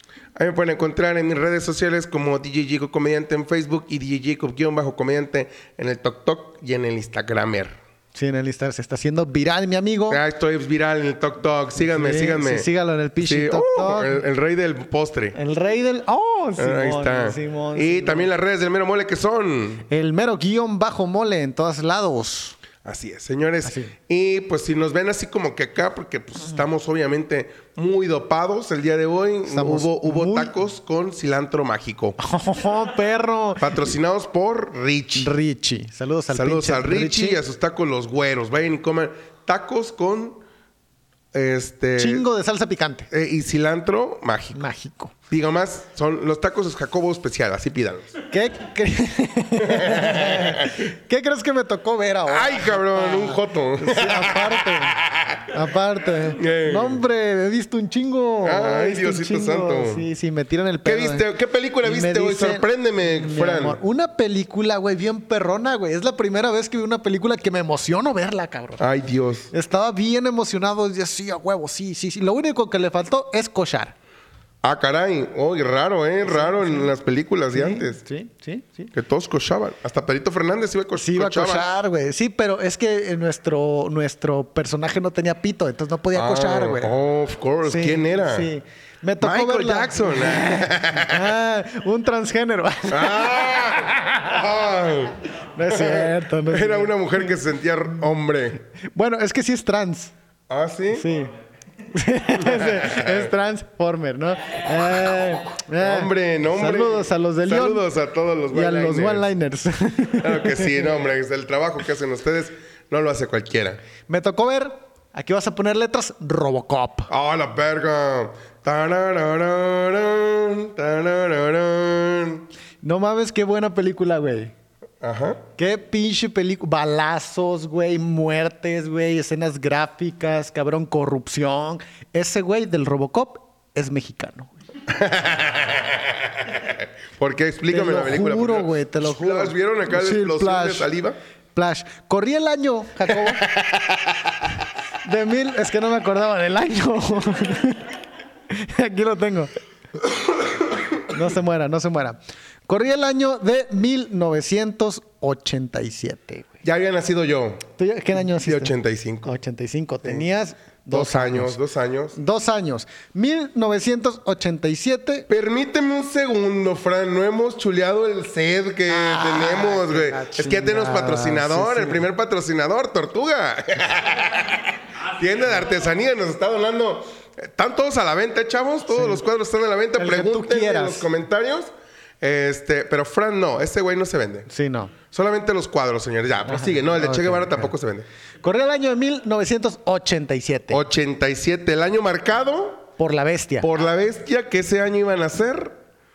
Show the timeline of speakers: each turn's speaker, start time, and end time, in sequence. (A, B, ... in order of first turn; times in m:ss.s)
0:00.4-0:07.8 A
0:08.1-0:10.2 B
0:10.1-0:12.7 A
0:11.8-0:14.2 B
0:13.2-0:15.4 A
0:15.3-0:18.3 B
0:16.6-0:19.9 A
0:19.9-0:22.6 B
0:22.8-0:32.2 A
0:23.6-0:23.9 B
0:29.5-0:30.5 B
0:32.2-0:33.7 B
0:33.6-0:35.3 A
0:35.2-0:37.4 B
0:36.3-0:40.4 A
0:41.3-0:42.3 A
0:42.0-0:43.1 B
0:43.1-0:44.6 A
0:44.5-0:45.1 B
0:45.3-0:48.1 A
0:48.3-1:01.3 B
0:49.6-0:50.8 A
0:52.3-0:55.5 A
0:56.3-0:57.0 A
0:58.4-1:00.0 A
1:00.8-1:03.8 A
1:01.8-1:08.8 B
1:08.8-1:09.5 A
1:09.5-1:14.0 B
1:14.6-1:18.0 A
1:16.3-1:16.9 B
1:17.5-1:18.9 B
1:18.9-1:21.7 A
1:21.0-1:26.9 B
1:26.1-1:28.5 A
1:27.7-1:34.4 B
1:29.2-1:31.3 A
1:32.9-1:35.2 A
1:35.5-1:37.2 B
1:35.7-1:38.6 A
1:38.8-1:40.1 B
1:40.5-1:41.1 A
1:40.9-1:41.3 B
1:41.9-1:47.8 B
1:42.4-1:43.3 A
1:45.8-1:49.3 A
1:48.5-1:50.8 B
1:50.2-1:53.8 A
1:54.1-1:57.1 B
1:57.1-2:02.5 A
2:02.8-2:04.5 B
2:05.0-2:05.4 A
2:05.6-2:14.5 B
2:14.9-2:21.2 A
2:17.7-2:20.9 B
2:21.6-2:23.5 B
2:23.1-2:24.2 A
2:25.0-2:28.0 B
2:28.5-2:29.6 B
2:31.1-2:36.6 B
2:36.6-2:37.7 A
2:37.8-2:41.6 B
2:38.4-2:39.4 A
2:40.9-2:42.2 A
2:42.2-2:45.3 B
2:45.3-3:04.5 A
2:48.9-2:52.0 B
2:58.9-2:59.2 B
3:00.0-3:01.1 B
3:04.5-3:04.9 B
3:05.1-3:08.1 A
3:06.5-3:07.7 B
3:08.4-3:10.8 B
3:10.7-3:12.9 A
3:13.0-3:13.7 B
3:13.6-3:15.8 A